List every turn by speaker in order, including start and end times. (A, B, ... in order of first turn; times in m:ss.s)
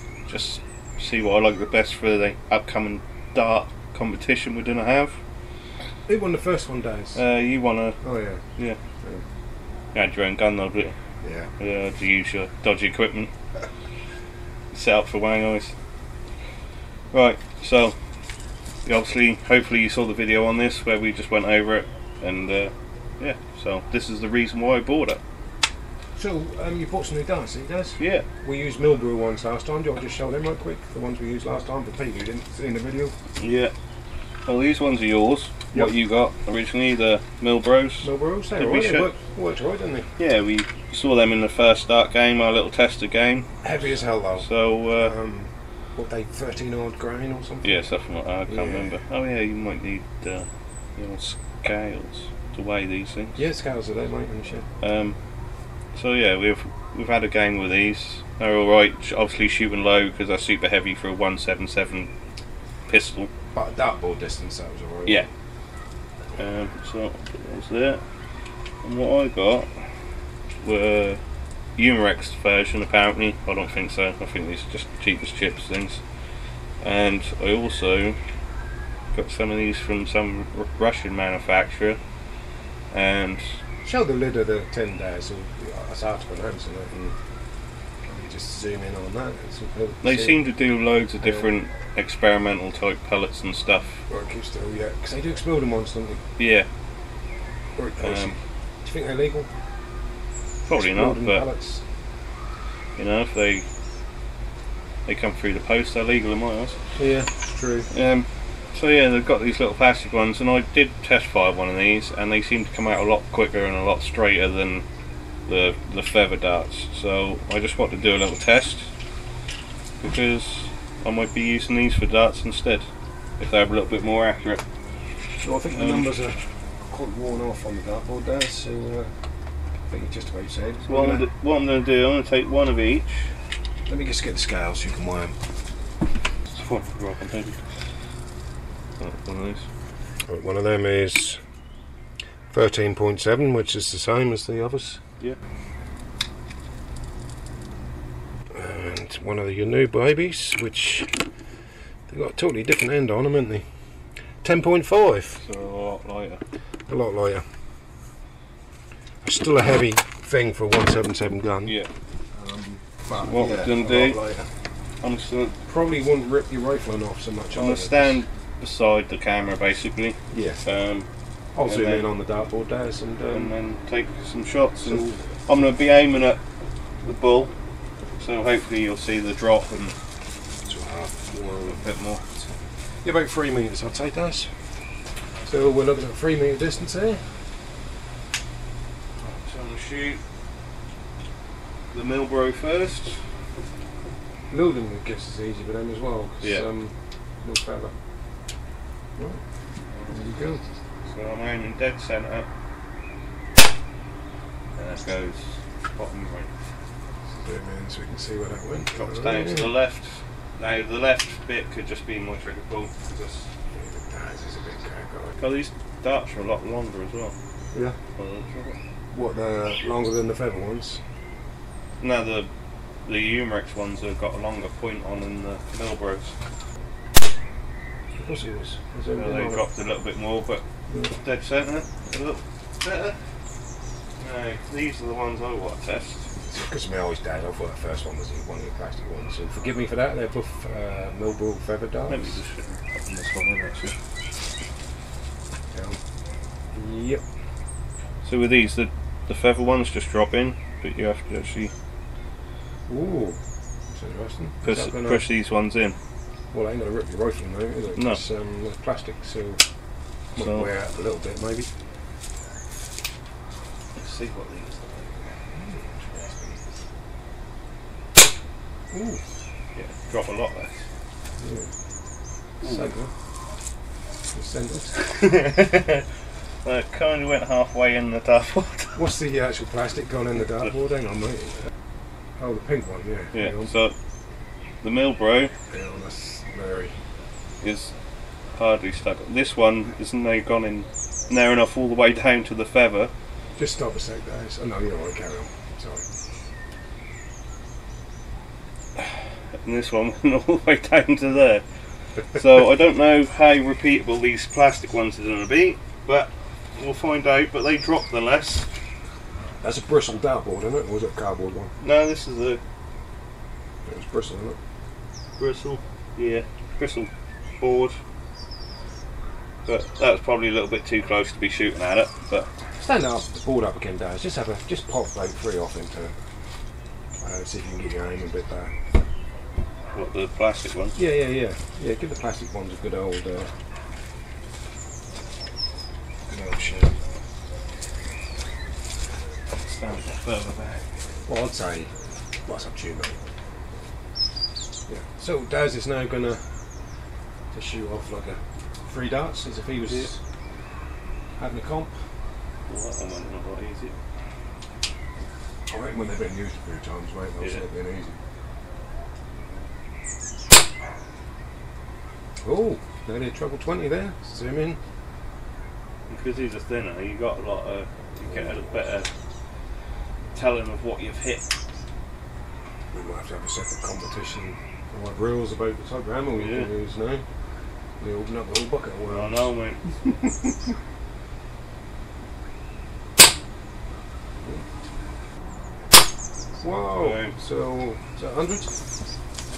0:00.3-0:05.2 A
0:06.1-0:07.2 B
0:07.2-0:08.0 A
0:08.0-0:08.4 B
0:09.9-0:11.0 A
0:11.2-0:11.5 B
0:11.6-0:13.3 A
0:14.7-0:15.7 A
0:17.1-0:18.0 A
0:18.8-0:25.2 A
0:26.2-0:33.2 B
0:28.0-0:28.2 A
0:33.4-0:33.7 A
0:34.5-0:39.1 A
0:38.0-0:40.1 B
0:40.2-0:43.5 A
0:43.6-0:47.9 B
0:44.4-0:45.1 A
0:47.6-0:53.4 A
0:48.5-0:48.9 B
0:53.4-0:54.7 B
0:54.8-0:55.2 A
0:56.0-1:02.1 A
1:02.9-1:03.3 A
1:03.5-1:05.3 B
1:06.4-1:08.0 A
1:08.8-1:09.7 A
1:10.6-1:11.2 A
1:11.8-1:16.0 A
1:16.8-1:18.2 A
1:19.1-1:22.0 A
1:22.9-1:23.6 A
1:23.8-1:27.2 B
1:28.1-1:30.4 B
1:30.0-1:34.0 A
1:31.2-1:31.5 B
1:34.1-1:36.2 B
1:36.4-1:36.7 A
1:37.8-1:39.5 B
1:38.0-1:38.4 A
1:40.6-1:41.5 A
1:40.7-1:41.8 B
1:43.0-1:43.7 A
1:45.1-1:46.8 A
1:47.0-1:47.9 B
1:47.9-1:54.8 A
1:55.5-1:58.9 A
2:00.0-2:02.9 A
2:03.4-2:04.6 A
2:05.4-2:09.1 B
2:05.7-2:06.2 A
2:09.9-2:11.3 B
2:10.9-2:13.3 A
2:13.9-2:15.4 B
2:16.5-2:17.8 A
2:19.0-2:19.7 A
2:20.3-2:21.4 B
2:22.5-2:25.0 B
2:28.5-2:31.2 B
2:32.1-2:33.6 B
2:34.4-2:35.4 B
2:35.4-2:36.4 A
2:36.9-2:37.4 B
2:39.2-2:41.8 B
2:42.3-2:44.5 B
2:43.1-2:44.2 A
2:45.0-2:45.6 A
2:45.7-2:48.2 B
2:47.6-2:51.1 A
2:50.3-2:50.6 B
2:51.6-2:53.5 B
2:51.6-2:52.1 A
2:53.3-2:56.4 A
2:54.8-2:55.3 B
2:57.0-2:57.5 A
2:58.2-3:00.0 A
3:00.6-3:01.8 B
3:01.3-3:02.2 A
3:03.0-3:04.5 B
3:05.5-3:07.4 B
3:09.2-3:10.2 A
3:11.9-3:13.2 A
3:14.5-3:18.0 B
3:16.4-3:16.7 A
3:20.1-3:20.6 B
3:21.1-3:22.5 A
3:24.8-3:26.5 A
3:27.4-3:29.7 B
3:28.9-3:33.5 A
3:33.7-3:35.4 B
3:35.4-3:37.3 A
3:38.2-3:38.8 A
3:39.1-3:41.0 B
3:42.0-3:42.5 A
3:43.0-3:46.4 A
3:48.2-3:49.6 B
3:49.1-3:50.6 A
3:50.9-3:51.2 B
3:51.2-3:53.2 A
3:54.2-3:56.3 A
3:56.4-4:02.4 B
4:02.1-4:03.9 A
4:05.7-4:06.0 B
4:06.7-4:07.2 B
4:08.2-4:11.7 A
4:12.9-4:13.4 B
4:13.9-4:15.3 B
4:14.6-4:16.0 A
4:16.5-4:19.6 B
4:20.3-4:21.7 B
4:20.4-4:20.7 A
4:24.0-4:25.2 A
4:25.5-4:26.6 B
4:28.9-4:29.2 B
4:29.8-4:30.9 A
4:31.4-4:31.7 B
4:32.6-4:32.9 A
4:32.6-4:33.1 B
4:34.3-4:35.0 B
4:35.0-4:36.1 A
4:36.6-4:39.0 A
4:39.0-4:41.6 B
4:42.4-4:43.7 B
4:43.3-4:44.0 A
4:44.8-4:45.5 A
4:45.7-4:47.0 B
4:47.6-4:47.9 A
4:48.6-4:53.1 A
4:53.6-4:56.1 B
4:59.6-5:01.6 A
5:02.3-5:08.7 A
5:09.6-5:11.7 B
5:11.8-5:12.6 A
5:13.8-5:14.6 B
5:15.4-5:18.0 A
5:19.7-5:22.5 A
5:22.8-5:26.2 B
5:27.2-5:28.7 B
5:29.9-5:31.0 A
5:31.0-5:33.5 B
5:36.3-5:37.0 B
5:39.5-5:40.8 A
5:41.3-5:41.9 B
5:42.5-5:43.2 B
5:44.9-5:46.4 B
5:47.5-5:50.2 B
5:51.4-5:52.0 B
5:52.7-5:54.0 A
5:55.7-5:58.2 B
6:02.4-6:04.8 B
6:06.1-6:09.1 A
6:08.2-6:08.9 B
6:10.3-6:11.5 A
6:12.9-6:17.2 B
6:16.4-6:16.7 A
6:18.0-6:19.5 B
6:19.1-6:20.1 A
6:20.1-6:20.5 B
6:26.6-6:28.7 B
6:27.0-6:27.4 A